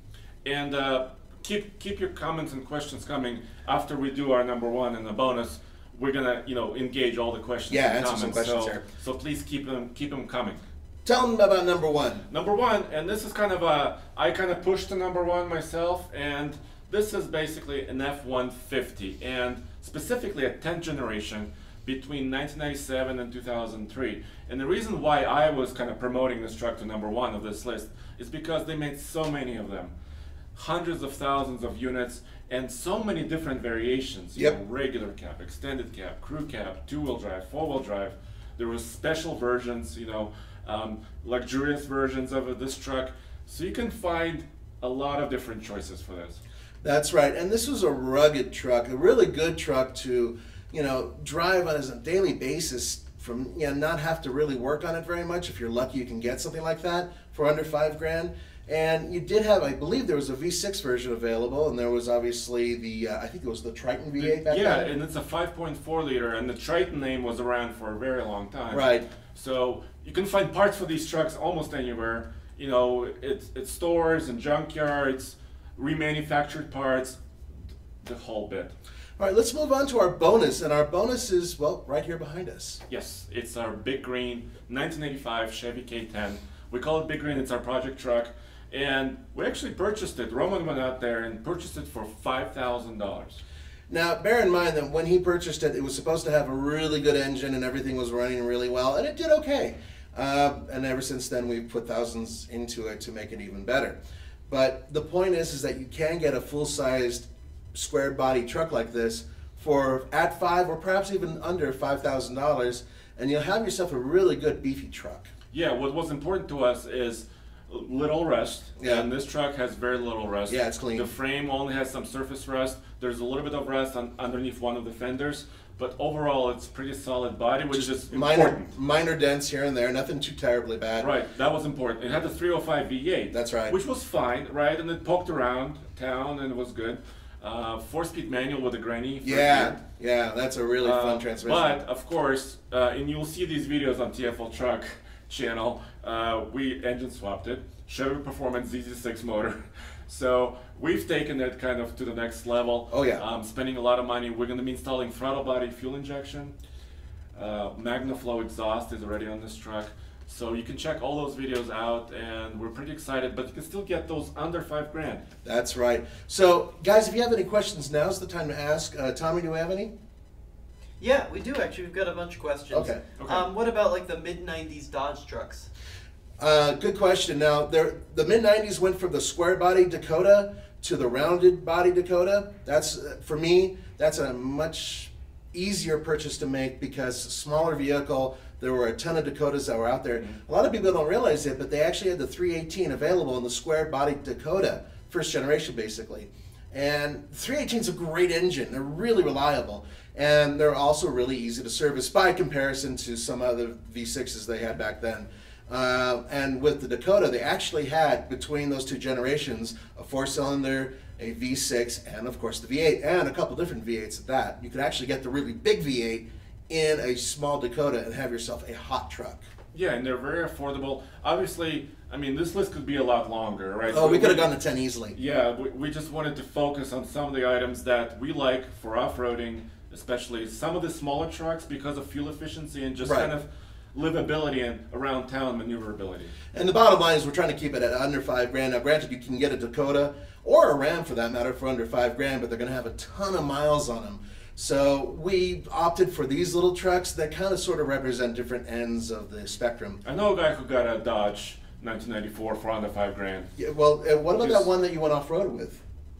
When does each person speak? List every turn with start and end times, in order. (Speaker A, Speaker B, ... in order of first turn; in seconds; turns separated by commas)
Speaker A: 0.4-10.6, Speaker B: 7.7-8.8, Speaker B: 11.0-12.2, Speaker A: 12.3-29.9, Speaker A: 30.5-46.4, Speaker B: 46.8-64.9, Speaker A: 64.2-77.2, Speaker B: 68.7-69.0, Speaker A: 78.0-78.7, Speaker B: 79.2-82.8, Speaker A: 82.9-93.4, Speaker B: 93.9-104.0, Speaker B: 104.5-115.3, Speaker A: 115.5-128.7, Speaker B: 118.8-119.1, Speaker B: 120.5-121.1, Speaker B: 127.7-131.1, Speaker A: 131.0-139.8, Speaker B: 133.3-133.8, Speaker B: 139.2-141.8, Speaker A: 140.8-156.5, Speaker B: 152.9-153.2, Speaker A: 157.3-165.2, Speaker B: 165.4-169.9, Speaker C: 171.0-175.7, Speaker B: 172.7-173.0, Speaker A: 173.2-173.4, Speaker B: 176.4-219.4, Speaker A: 219.7-224.5, Speaker B: 223.9-225.2, Speaker A: 225.1-236.3, Speaker B: 233.0-233.3, Speaker B: 236.5-250.0, Speaker A: 250.0-253.5, Speaker B: 253.6-255.8, Speaker A: 254.4-254.7